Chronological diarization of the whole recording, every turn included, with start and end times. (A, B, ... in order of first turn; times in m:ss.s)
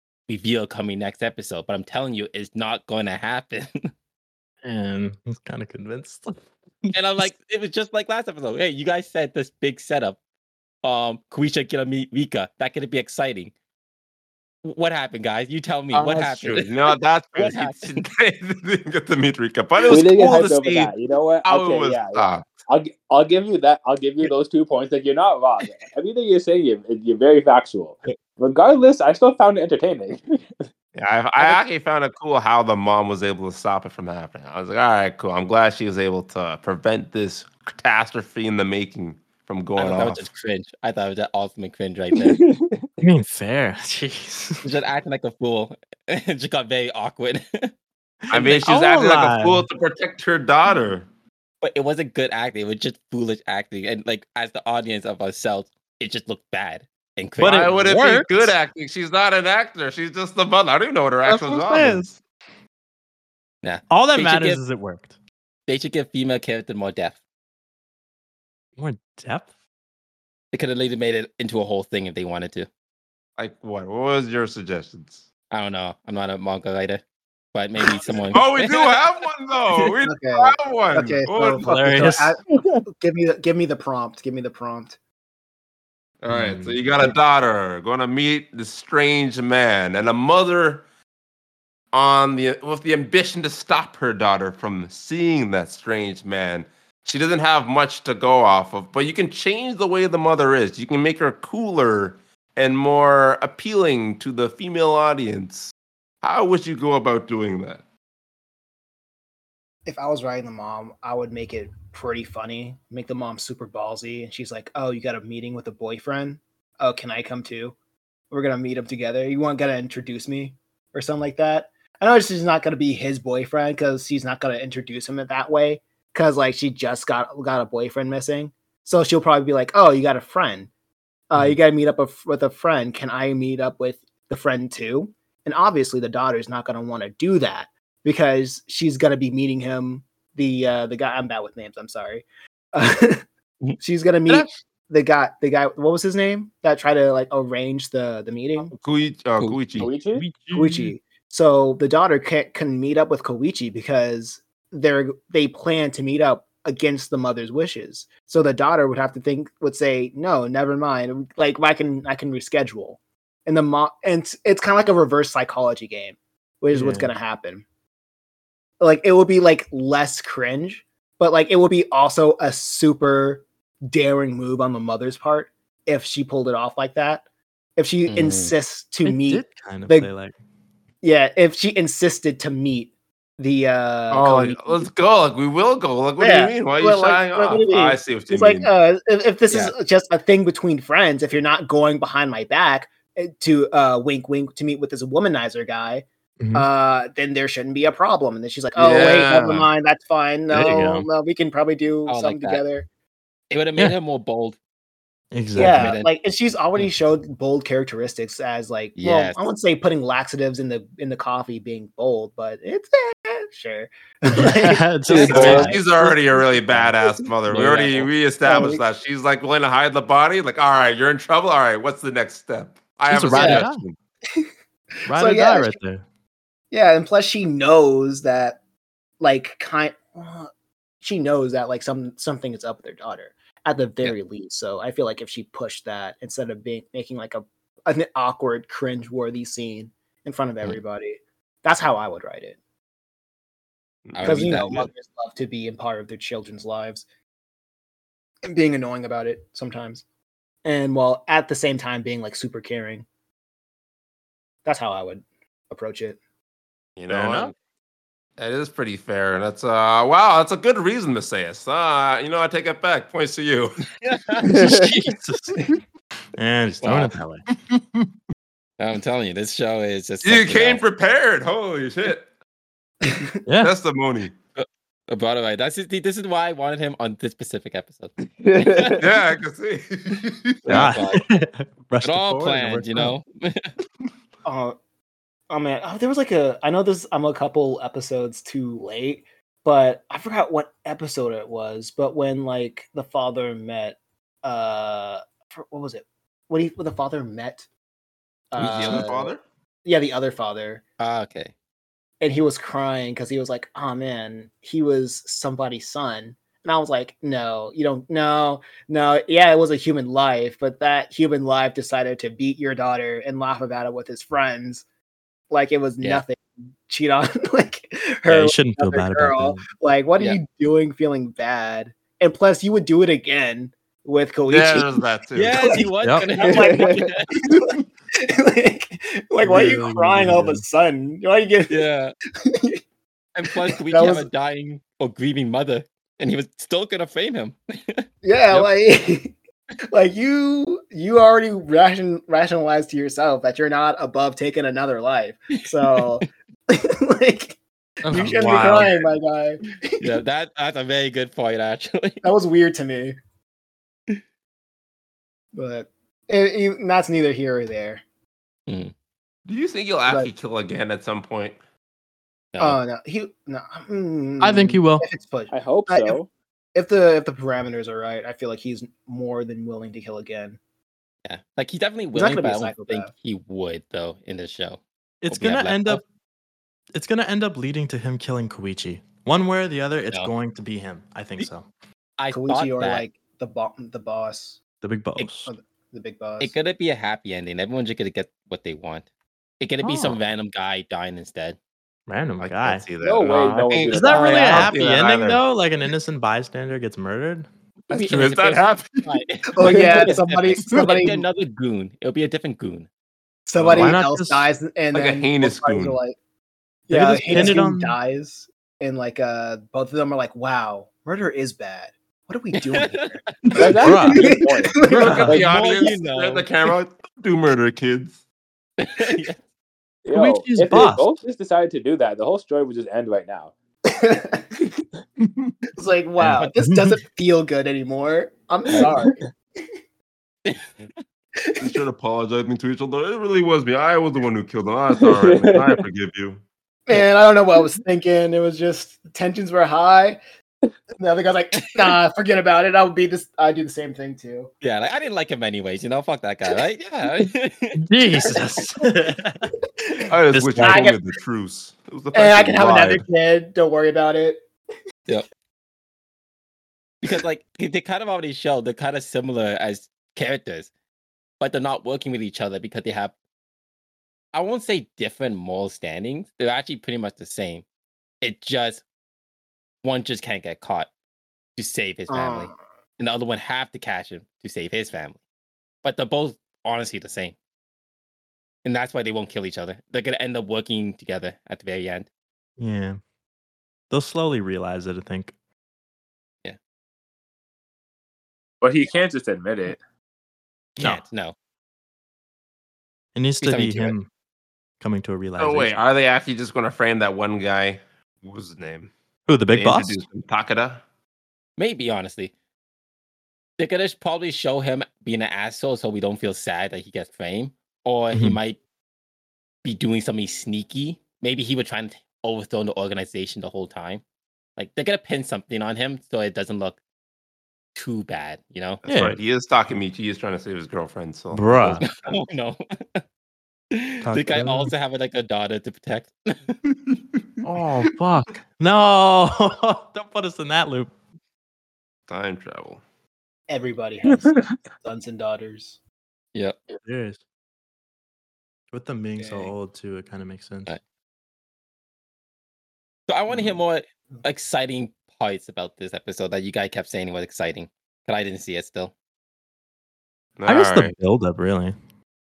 0:00.3-0:03.9 A
0:04.6-0:06.3 B
0:06.9-0:07.3 B
0:06.9-0:10.2 A
0:10.8-0:13.5 A
0:14.6-0:16.8 A
0:15.9-0:20.9 C
0:17.3-0:18.0 A
0:19.9-0:30.4 D
0:21.4-0:22.5 C
0:30.9-0:40.2 C
0:39.8-0:42.4 A
0:42.2-0:42.8 D
0:43.0-0:44.6 B
0:44.6-0:47.7 A
0:48.3-0:48.8 A
0:48.3-0:51.1 C
0:48.6-0:49.7 B
0:51.6-0:57.8 A
0:57.4-0:58.5 B
0:57.4-1:02.1 C
1:01.2-1:02.2 B
1:03.6-1:04.6 A
1:03.9-1:05.1 B
1:05.7-1:07.2 A
1:08.8-1:09.5 B
1:10.5-1:12.7 A
1:13.4-1:15.2 C
1:15.5-1:17.0 A
1:17.5-1:18.9 A
1:18.3-1:21.7 C
1:20.0-1:25.0 E
1:21.6-1:22.3 B
1:26.2-1:30.8 C
1:26.3-1:27.1 B
1:31.9-1:47.8 C
1:49.8-1:57.7 E
1:58.3-2:10.7 E
2:11.3-2:23.2 E
2:23.8-2:28.7 E
2:28.7-2:29.9 C
2:29.8-2:30.2 D
2:30.1-2:30.9 B
2:30.5-2:47.6 E
2:46.7-2:47.1 B
2:48.8-2:57.2 E
2:57.8-3:00.1 E
2:58.1-2:58.5 A
2:59.0-3:00.3 B
3:01.0-3:04.9 E
3:04.1-3:08.7 C
3:06.2-3:22.9 E
3:16.4-3:16.7 B
3:18.7-3:19.7 C
3:20.5-3:21.1 B
3:22.1-3:22.6 A
3:23.5-3:24.6 A
3:25.3-3:26.0 B
3:25.6-3:36.4 E
3:25.6-3:26.1 A
3:29.0-3:29.4 A
3:34.3-3:36.0 B
3:35.1-3:35.7 A
3:35.1-3:35.7 D
3:35.3-3:44.0 C
3:37.5-3:38.1 A
3:38.4-3:38.8 E
3:43.1-3:43.8 B
3:43.3-3:43.6 E
3:45.1-3:46.0 B
3:45.1-3:45.7 E
3:46.7-3:48.6 E
3:49.2-3:50.5 E
3:51.0-4:02.6 E
4:04.1-4:04.7 C
4:04.2-4:04.9 A
4:04.2-4:07.0 E
4:08.4-4:10.0 E
4:10.6-4:13.0 E
4:14.6-4:16.2 E
4:17.0-4:17.5 C
4:17.1-4:17.5 B
4:18.4-4:23.8 C
4:24.0-4:24.5 A
4:24.4-4:25.7 B
4:24.4-4:24.9 D
4:26.4-4:27.4 B
4:26.8-4:27.1 A
4:28.8-4:30.8 A
4:30.2-4:32.2 C
4:33.4-4:33.7 B
4:33.6-4:34.3 C
4:34.6-4:39.0 A
4:38.4-4:39.0 D
4:39.0-4:40.9 C
4:40.6-4:41.3 A
4:40.7-4:43.1 B
4:42.0-4:43.7 A
4:44.4-4:44.8 E
4:45.5-4:57.6 E
4:58.5-4:59.3 E
4:58.6-4:59.4 C
4:58.8-4:59.0 A
4:59.8-5:00.8 E
5:01.0-5:01.5 A
5:02.2-5:14.8 E
5:15.5-5:25.8 E
5:18.3-5:19.6 B
5:24.5-5:25.8 C
5:25.3-5:27.3 A
5:26.0-5:26.3 B
5:26.4-5:31.8 E
5:26.4-5:27.1 D
5:29.4-5:30.6 B
5:31.7-5:32.1 A
5:32.4-5:32.8 E
5:33.3-5:38.6 A
5:33.7-5:34.3 E
5:38.2-5:39.3 E
5:39.9-5:47.6 E
5:48.0-5:48.9 B
5:48.1-5:50.1 E
5:50.0-5:52.3 A
5:52.2-5:53.2 E
5:55.5-5:58.0 E
5:58.7-5:58.9 A
5:59.4-6:01.6 C
6:02.5-6:02.8 A
6:02.6-6:06.2 E
6:04.4-6:05.0 B
6:05.5-6:06.3 D
6:06.7-6:10.6 E
6:11.2-6:16.0 A
6:12.1-6:13.1 E
6:15.2-6:16.0 B
6:16.9-6:21.7 B
6:22.2-6:23.0 A
6:22.3-6:24.6 E
6:24.8-6:25.5 B
6:25.4-6:26.5 E
6:26.4-6:29.0 A
6:29.6-6:31.6 A
6:29.8-6:30.2 B
6:32.1-6:32.8 B
6:32.4-6:35.4 C
6:33.0-6:34.7 D
6:33.9-6:37.5 B
6:37.9-6:39.1 C
6:37.9-6:42.9 A
6:39.0-6:41.2 E
6:43.5-6:46.2 E
6:43.6-6:44.5 B
6:44.9-6:46.0 C
6:46.9-6:55.3 E
6:46.9-6:48.0 B
6:52.5-6:53.0 A
6:53.5-6:55.3 D
6:53.8-6:54.3 B
6:54.8-6:58.2 C
6:55.0-6:55.3 B
6:55.2-6:56.5 A
6:58.8-6:59.4 A
7:00.0-7:03.5 D
7:00.1-7:01.0 B
7:03.9-7:04.5 E
7:05.8-7:09.2 E
7:06.2-7:06.9 B
7:11.5-7:11.8 E
7:11.6-7:16.4 C
7:15.0-7:15.8 D
7:16.9-7:20.2 E
7:21.0-7:24.5 E
7:24.6-7:27.8 A
7:27.8-7:29.5 B
7:30.1-7:33.0 C
7:30.3-7:30.8 B
7:30.6-7:31.0 E
7:32.1-7:34.4 E
7:37.0-7:40.7 A
7:41.4-7:43.1 A
7:44.3-7:47.6 A
7:48.2-7:48.8 A
7:49.8-7:50.9 A
7:51.6-7:55.2 A
7:52.1-7:52.6 E
7:55.8-7:57.4 A
7:58.6-8:02.1 A
8:02.6-8:03.0 B
8:03.9-8:05.3 B
8:08.6-8:09.8 D
8:10.8-8:11.3 A
8:13.1-8:14.1 B
8:13.4-8:14.0 A
8:14.8-8:15.8 B
8:15.4-8:18.9 C
8:19.3-8:20.0 B
8:19.5-8:20.8 C
8:21.6-8:22.3 A
8:23.6-8:28.6 A
8:28.1-8:28.4 B
8:29.6-8:34.0 A
8:34.6-8:36.8 A
8:37.7-8:38.8 A
8:38.8-8:41.9 C
8:38.8-8:39.2 B
8:41.3-8:41.8 B
8:41.8-8:43.0 A
8:43.7-8:46.6 A
8:44.0-8:44.7 B
8:47.4-8:50.9 B
8:52.1-8:52.8 C
8:53.5-8:55.8 E
8:54.3-8:54.6 D
8:56.8-8:57.2 B
8:58.7-9:00.7 B
9:03.1-9:08.9 A
9:10.4-9:10.9 C
9:10.5-9:11.8 B